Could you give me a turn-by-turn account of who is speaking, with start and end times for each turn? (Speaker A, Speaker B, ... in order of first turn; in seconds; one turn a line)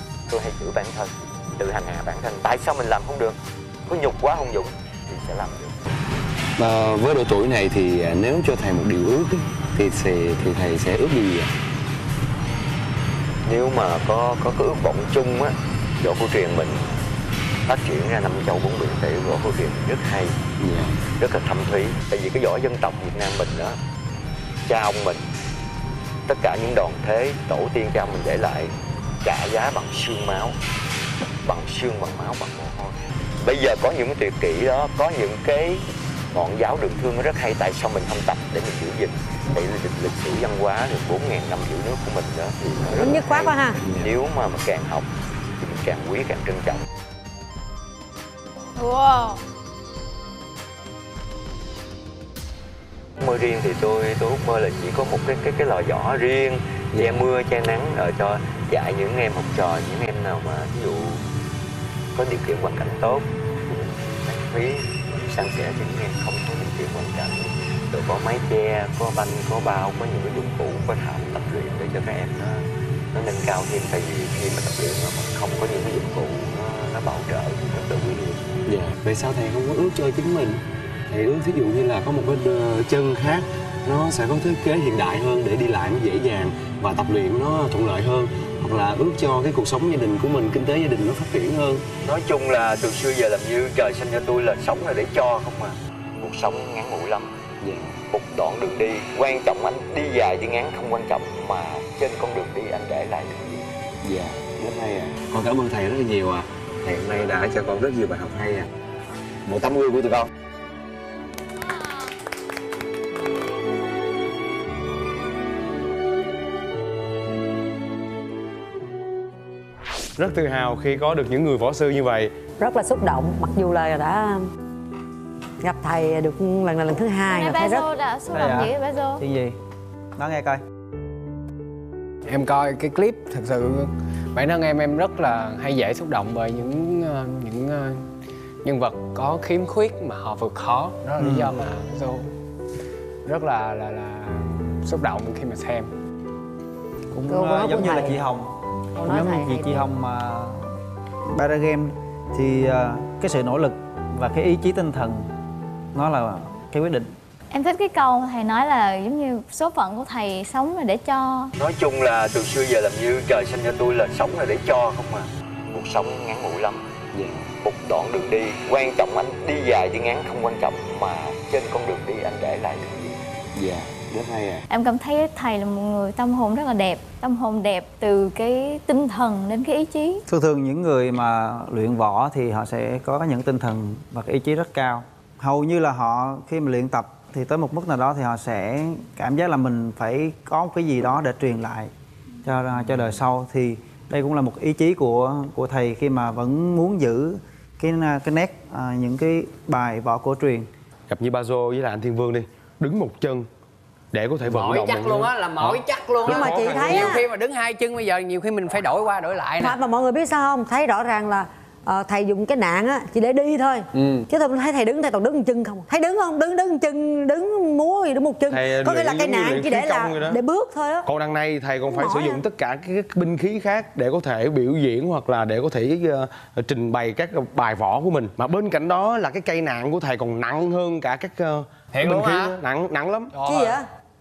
Speaker A: 0.3-5.8
Speaker B: 6.6-11.5
Speaker A: 13.4-16.9
Speaker A: 17.6-20.3
Speaker B: 20.6-21.0
Speaker A: 21.2-23.8
Speaker A: 24.6-25.3
Speaker A: 26.3-30.6
Speaker A: 31.4-45.1
Speaker C: 42.9-43.8
Speaker B: 43.8-44.1
Speaker A: 45.6-46.8
Speaker D: 48.8-49.4
Speaker A: 53.2-61.2
Speaker B: 56.9-57.2
Speaker A: 62.1-78.5
Speaker B: 78.7-91.8
Speaker A: 92.0-97.3
Speaker B: 97.6-98.0
Speaker A: 98.1-103.7
Speaker B: 104.0-108.7
Speaker B: 109.5-110.3
Speaker E: 120.2-122.3
Speaker C: 122.6-124.5
Speaker C: 125.6-127.8
Speaker D: 127.3-129.2
Speaker F: 128.3-129.6
Speaker F: 130.2-130.6
Speaker G: 132.2-138.1
Speaker G: 138.6-142.3
Speaker F: 141.2-141.6
Speaker G: 143.2-145.9
Speaker F: 147.1-150.7
Speaker C: 147.3-148.2
Speaker C: 149.0-149.9
Speaker F: 151.3-155.3
Speaker F: 155.9-157.1
Speaker D: 157.5-161.5
Speaker A: 161.6-166.8
Speaker B: 167.1-167.5
Speaker A: 167.6-173.2
Speaker B: 173.5-174.7
Speaker D: 174.7-180.2
Speaker F: 180.3-191.9
Speaker F: 192.4-200.7
Speaker E: 201.1-203.5
Speaker E: 204.1-207.2
Speaker G: 204.4-209.8
Speaker C: 206.2-207.2
Speaker C: 209.6-221.1
Speaker G: 213.9-214.2
Speaker E: 218.5-220.4
Speaker E: 221.1-233.3
Speaker C: 221.8-222.4
Speaker G: 231.9-232.6
Speaker G: 233.3-233.8
Speaker C: 233.4-233.8